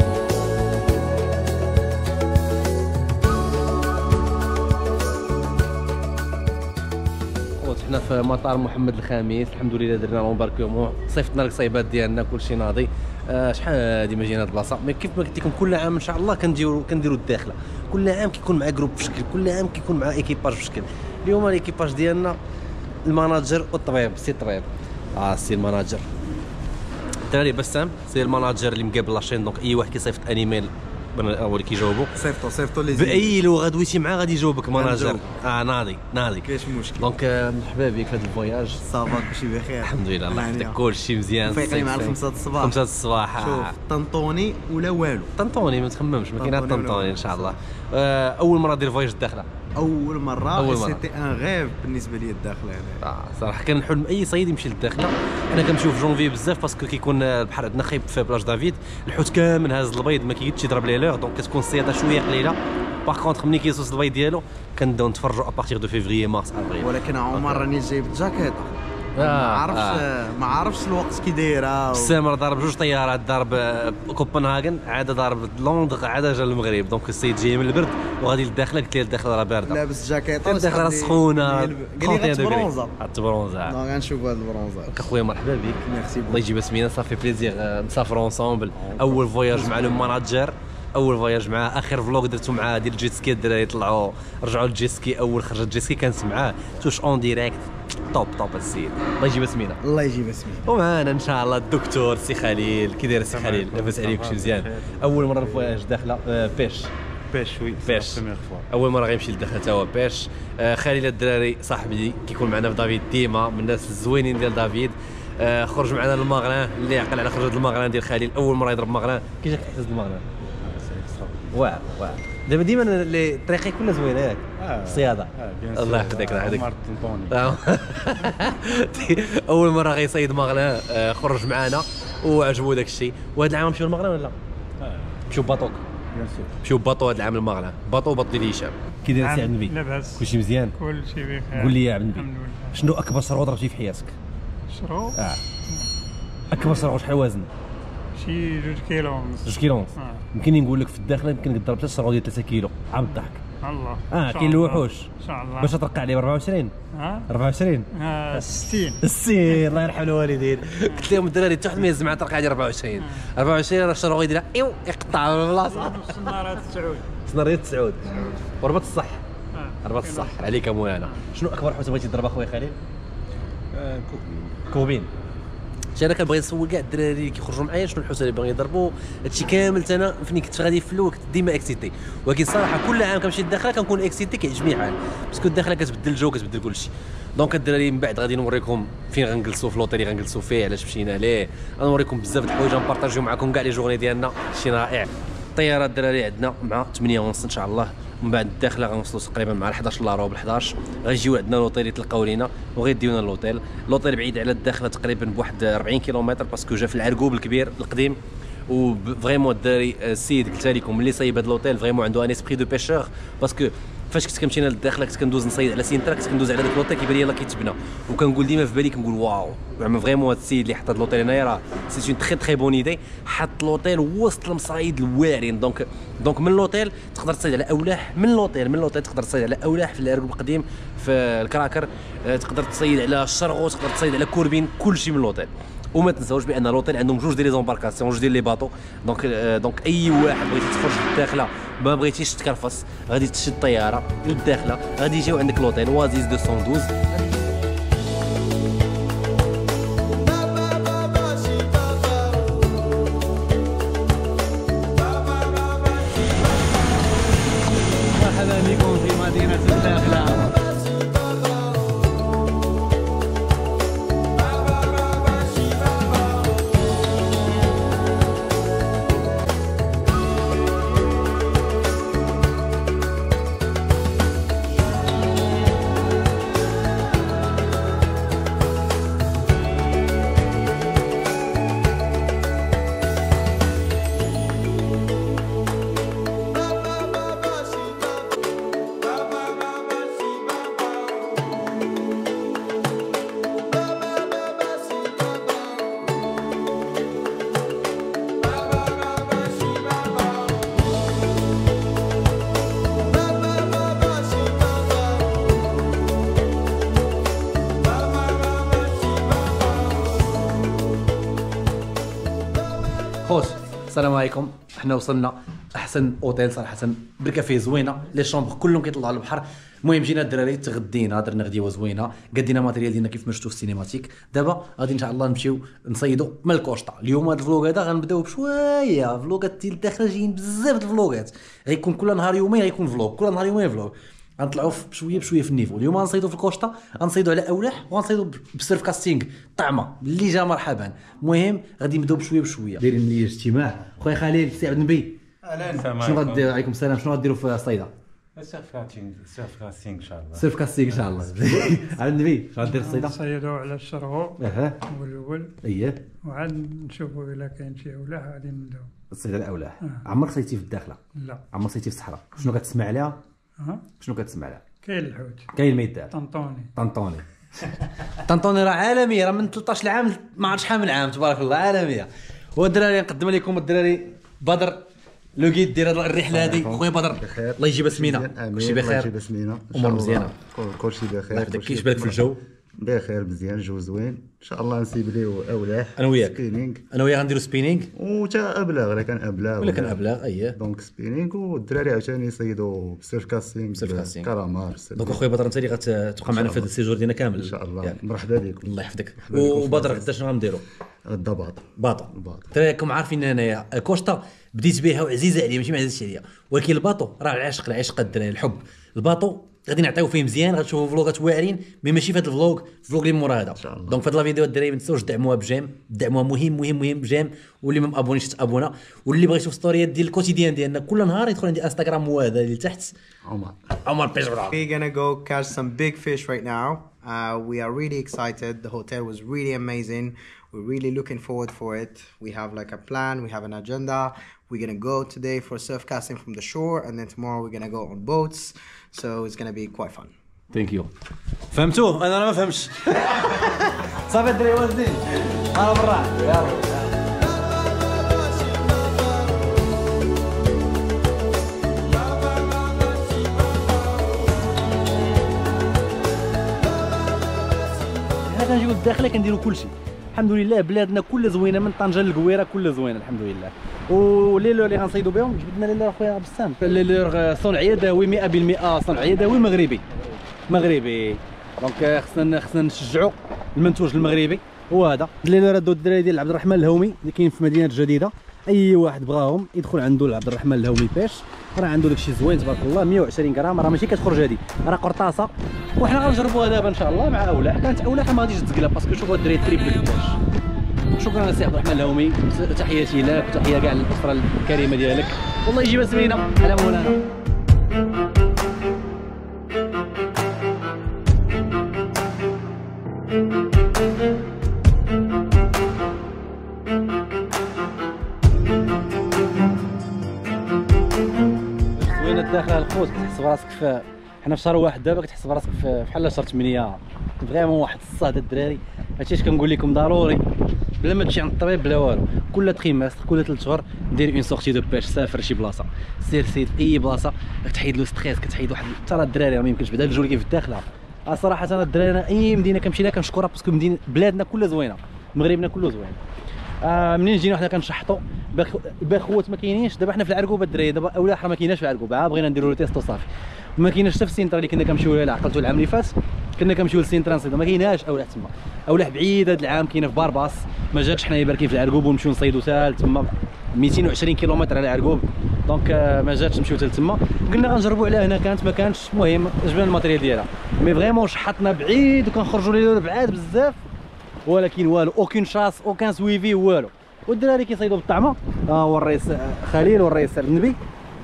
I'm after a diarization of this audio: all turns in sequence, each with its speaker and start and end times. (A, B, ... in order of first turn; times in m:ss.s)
0:07.6-0:22.4 A
0:23.0-0:26.0 A
0:27.2-0:32.2 A
0:32.2-0:33.4 B
0:32.9-0:43.8 A
0:34.7-0:35.2 B
0:36.4-0:37.0 B
0:38.9-0:40.8 B
0:41.4-0:42.8 B
0:43.4-0:45.3 B
0:45.3-0:49.5 A
0:46.4-0:47.5 B
0:49.8-0:53.0 B
0:50.5-0:51.0 A
0:53.0-1:07.7 A
1:06.8-1:12.2 B
1:09.2-1:10.0 A
1:11.9-1:19.8 A
1:19.6-1:22.9 B
1:20.4-1:23.8 A
1:23.6-1:25.1 B
1:24.9-1:39.8 A
1:25.8-1:26.4 B
1:28.9-1:29.8 B
1:39.8-1:40.7 B
1:40.6-1:46.9 A
1:43.3-1:45.4 C
1:47.3-1:48.6 C
1:47.8-2:00.2 A
2:00.7-2:01.5 D
2:01.5-2:06.7 A
2:04.8-2:07.4 D
2:05.9-2:06.9 C
2:07.3-2:14.4 A
2:15.3-2:15.8 A
2:16.1-2:16.5 D
2:16.6-2:20.8 A
2:19.2-2:20.2 E
2:20.8-2:22.8 E
2:21.5-2:24.2 A
2:24.7-2:25.2 E
2:25.1-2:25.4 A
2:26.5-2:27.5 A
2:28.1-2:29.4 E
2:29.4-2:33.4 A
2:30.0-2:30.2 E
2:33.5-2:35.8 E
2:34.1-2:36.7 A
2:36.9-2:37.3 E
2:37.3-2:46.6 A
2:37.9-2:39.0 E
2:45.7-2:47.1 E
2:47.2-2:49.2 A
2:49.5-2:50.3 E
2:49.8-2:52.8 A
2:53.8-2:54.1 D
2:53.9-2:54.3 C
2:54.6-2:55.1 A
2:55.9-4:07.1 A
4:10.4-4:12.6 B
4:15.4-4:15.8 B
4:18.1-4:20.6 A
4:20.7-4:21.7 B
4:46.8-4:48.2 B
4:49.2-4:50.5 B
4:54.3-4:55.7 B
5:03.7-5:05.1 B
5:13.2-5:45.2 A
5:45.6-5:46.2 C
5:45.8-5:47.9 A
5:48.4-5:50.4 C
5:50.3-5:53.2 A
5:52.6-5:55.6 E
5:54.4-5:54.8 A
5:55.6-5:56.0 A
5:56.2-5:58.9 E
5:59.1-6:01.0 A
6:01.2-6:01.4 E
6:01.5-6:03.2 A
6:03.6-6:03.8 E
6:04.0-6:04.6 A
6:04.8-6:05.5 E
6:05.5-6:06.1 A
6:06.1-6:06.7 E
6:06.7-6:07.2 A
6:08.1-6:14.8 A
6:15.4-6:19.1 A
6:16.3-6:26.8 D
6:19.7-6:20.4 A
6:21.3-6:22.4 A
6:26.0-6:27.9 A
6:27.9-6:35.2 D
6:29.6-6:30.6 A
6:33.8-6:34.3 A
6:35.0-6:38.0 A
6:36.3-6:36.7 D
6:37.4-6:40.1 D
6:38.6-6:40.6 A
6:41.0-6:42.5 D
6:41.8-7:02.9 A
6:53.6-6:54.1 D
7:03.2-7:03.6 D
7:03.8-7:04.6 A
7:04.5-7:20.1 B
7:20.5-7:20.9 A
7:21.5-7:26.8 A
7:27.4-7:29.1 B
7:38.0-7:49.8 A
7:50.5-8:10.2 A
8:11.0-8:17.0 A
8:31.8-8:40.2 A
8:40.8-8:56.0 A
8:56.6-9:23.6 A
9:24.2-9:30.6 A